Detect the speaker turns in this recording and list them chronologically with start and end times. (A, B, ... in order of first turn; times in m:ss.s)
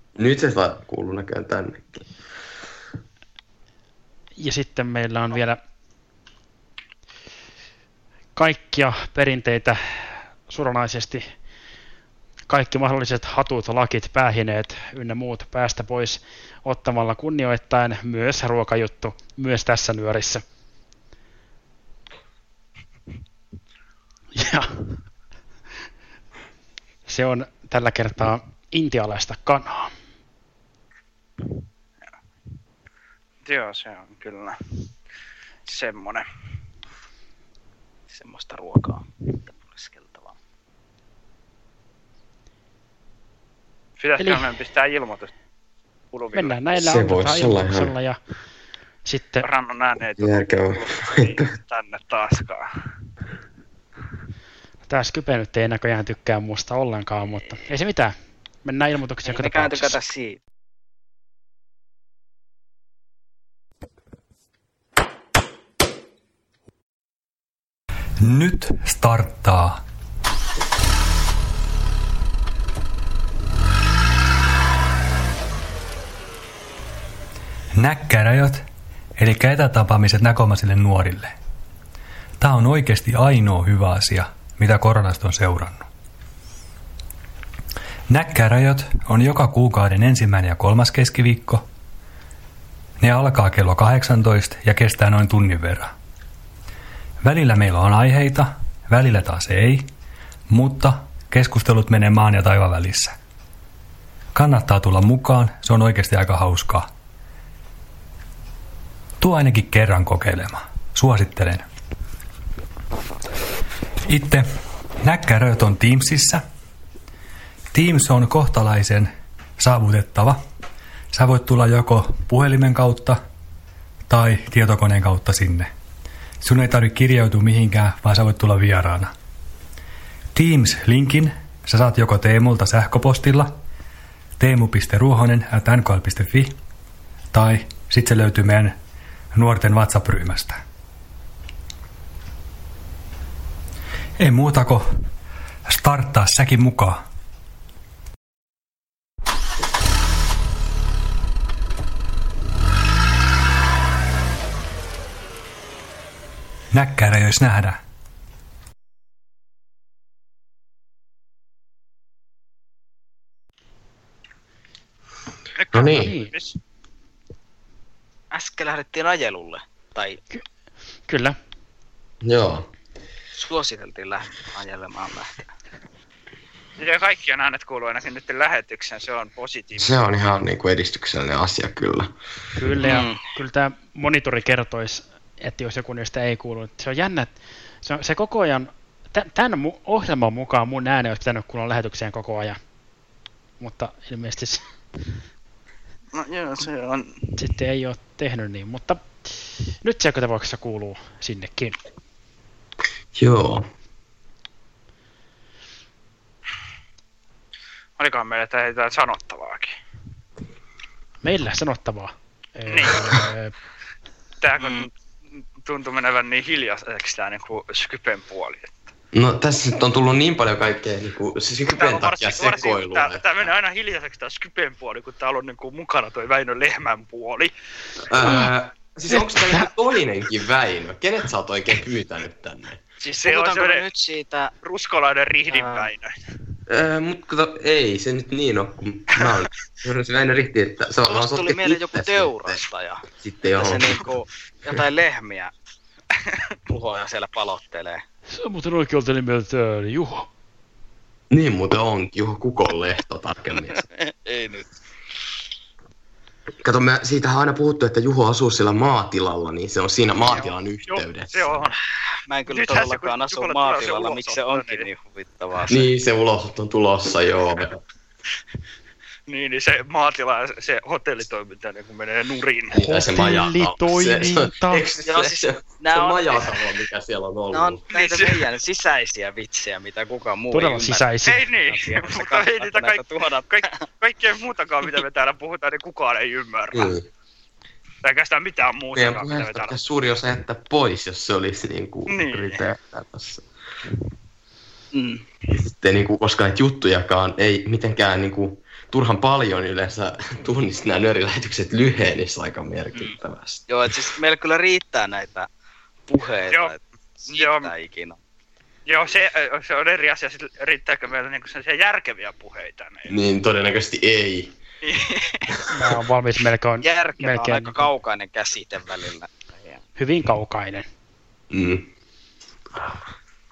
0:00.2-0:02.0 A
0:04.4-0:05.6 B
0:08.4-0:11.2 B
0:12.5-0:20.4 B
0:24.4-0:25.0 B
0:27.1-0:29.9 B
0:33.4-0:34.6 C
0:35.7-0:36.2 C
0:38.1-0:40.3 D
0:44.0-0:45.3 C
0:44.2-0:44.5 B
0:46.1-0:46.6 C
0:46.3-0:48.2 B
0:46.8-0:47.9 A
0:49.1-0:49.5 B
0:49.4-0:52.7 C
0:50.2-0:51.5 A
0:54.9-1:00.0 B
0:59.2-1:00.4 D
1:08.2-1:09.8 E
1:17.8-1:18.6 E
1:19.2-1:21.4 E
1:22.4-1:25.9 E
1:28.1-1:31.6 E
1:33.0-1:35.9 E
1:37.2-1:39.9 E
1:40.5-1:43.2 E
1:44.4-1:46.9 E
1:49.2-1:51.7 E
1:54.1-1:54.5 E
1:55.0-1:56.4 E
1:57.7-2:00.4 E
2:01.1-2:03.2 E
2:04.1-2:05.7 E
2:06.4-2:09.1 E
2:10.4-2:13.6 E
2:14.4-2:16.6 E
2:17.3-2:18.8 E
2:19.3-2:20.6 E
2:24.2-2:24.9 E
2:25.7-2:27.0 E
2:36.7-2:37.8 E
2:45.6-2:46.6 C
2:45.7-2:46.1 A
2:45.9-2:46.3 B
2:48.3-2:50.2 D
2:51.1-2:51.4 B
2:52.2-2:52.7 A
2:53.4-2:55.4 D
2:56.8-3:00.0 C
2:59.8-3:02.1 A
3:02.6-3:12.6 B
3:02.8-3:03.2 D
3:13.6-3:14.6 B
3:16.1-3:17.4 C
3:17.4-3:21.8 B
3:23.2-3:23.7 A
3:28.0-3:29.8 C
3:31.2-3:33.5 B
3:32.7-3:33.1 C
3:34.4-3:38.7 C
3:34.6-3:34.9 D
3:39.1-3:43.3 A
3:41.7-3:47.5 C
3:48.1-3:52.8 A
3:53.0-3:54.5 D
3:53.2-3:53.9 C
3:54.6-3:56.1 C
3:55.5-3:55.9 D
3:56.7-4:02.6 A
4:01.1-4:05.5 D
4:03.2-4:04.1 A
4:06.7-4:08.0 D
4:08.3-4:10.3 B
4:11.3-4:13.8 A
4:13.8-4:14.8 D
4:16.6-4:21.7 A
4:20.3-4:21.8 C
4:22.3-4:25.9 D
4:22.5-4:24.9 C
4:25.7-4:27.8 A
4:29.3-4:32.8 C
4:32.7-4:37.8 A
4:32.8-4:34.8 B
4:35.0-4:36.6 D
4:37.5-4:41.1 D
4:37.9-4:38.4 C
4:40.5-4:41.4 B
4:41.3-4:47.0 C
4:41.6-4:43.8 D
4:46.7-4:47.1 A
4:48.0-4:49.8 C
4:49.0-4:53.4 A
4:52.1-4:52.6 C
4:54.9-4:55.2 D
4:55.5-5:03.7 A
5:03.7-5:05.5 D
5:06.1-5:08.2 D
5:07.3-5:07.7 C
5:08.9-5:13.1 C
5:13.1-5:14.6 A
5:14.9-5:15.5 C
5:15.7-5:17.8 B
5:16.8-5:19.8 D
5:20.0-5:20.9 B
5:21.5-5:21.9 A